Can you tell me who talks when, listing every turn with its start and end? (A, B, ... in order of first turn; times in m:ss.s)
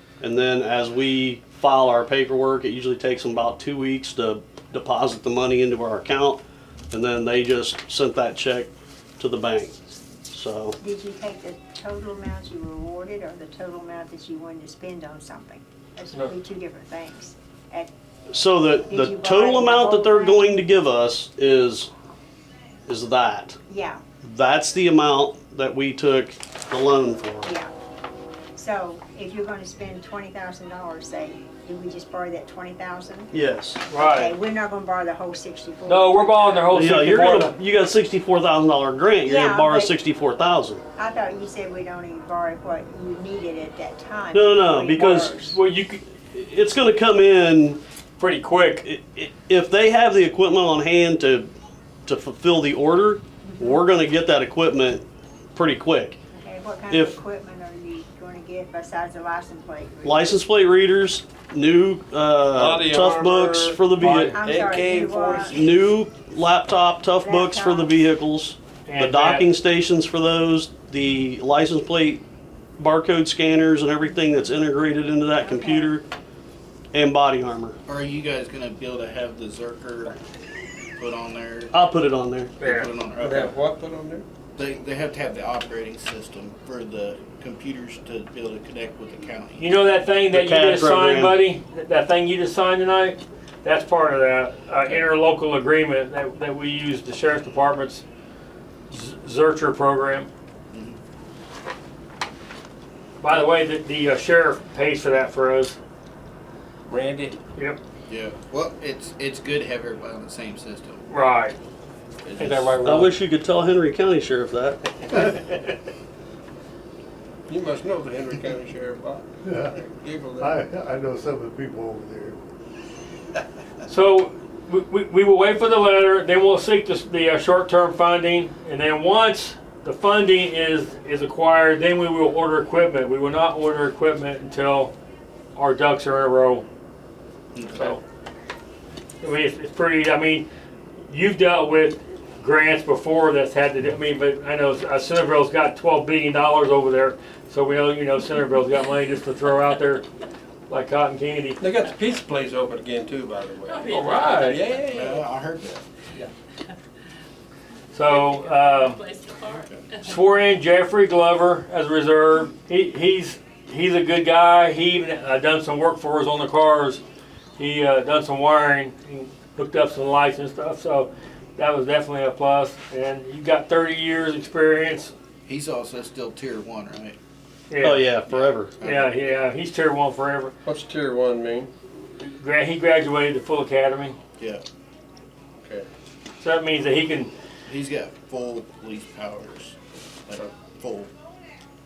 0:00.2-0:09.8 A
0:10.3-0:10.8 A
0:10.8-0:17.9 B
0:18.3-0:21.9 A
0:18.9-0:20.6 B
0:22.9-0:23.6 A
0:23.7-0:24.0 B
0:24.2-0:27.5 A
0:27.4-0:27.7 B
0:28.6-0:33.3 B
0:33.3-0:33.8 A
0:33.9-0:34.4 C
0:33.9-0:36.7 B
0:35.9-0:37.6 C
0:36.7-0:40.8 A
0:39.2-0:40.0 B
0:41.0-0:45.6 B
0:44.3-0:45.5 A
0:45.0-0:46.0 C
0:46.2-0:47.8 A
0:48.2-0:48.8 C
0:48.8-0:51.5 A
0:52.1-0:56.2 A
0:53.4-0:53.8 B
0:56.3-1:00.3 B
0:56.9-0:57.2 A
1:00.0-1:04.4 A
1:02.5-1:05.6 D
1:04.0-1:05.6 B
1:05.5-1:12.2 A
1:07.2-1:07.9 B
1:08.9-1:09.5 C
1:12.8-1:16.0 A
1:15.4-1:16.0 B
1:16.9-1:17.8 A
1:17.9-1:20.2 E
1:21.0-1:21.8 E
1:21.7-1:22.5 A
1:22.6-1:23.5 E
1:22.6-1:22.9 C
1:23.2-1:24.3 D
1:24.6-1:29.7 E
1:29.6-1:38.0 C
1:30.3-1:31.4 A
1:38.9-1:40.3 C
1:40.7-1:41.0 E
1:43.2-1:45.8 C
1:46.9-1:47.4 D
1:48.1-1:51.0 E
1:51.1-1:51.6 C
1:52.2-1:52.8 E
1:52.4-1:53.2 C
1:52.8-1:55.3 A
1:57.5-2:00.6 D
1:59.4-1:59.8 F
2:00.4-2:02.4 F
2:03.9-2:14.9 C
2:15.6-2:16.7 C
2:17.5-2:18.0 E
2:17.7-2:18.0 C
2:19.2-2:20.5 C
2:21.1-2:30.1 C
2:30.7-2:31.6 C
2:31.6-2:35.2 D
2:33.7-2:34.6 G
2:33.8-2:34.6 C
2:34.9-2:36.2 E
2:37.9-2:39.0 C
2:38.3-2:40.1 G
2:39.5-2:39.8 E
2:40.0-2:47.0 C
2:47.6-2:55.1 C
2:55.5-2:57.2 E
2:57.7-2:58.1 C
2:57.8-2:58.7 A
2:58.3-2:59.1 E
2:58.8-3:00.5 C
3:00.6-3:01.7 D
3:02.2-3:04.2 C
3:04.4-3:04.6 E
3:05.6-3:05.9 D
3:06.4-3:07.3 C
3:07.7-3:09.8 E
3:10.3-3:11.1 E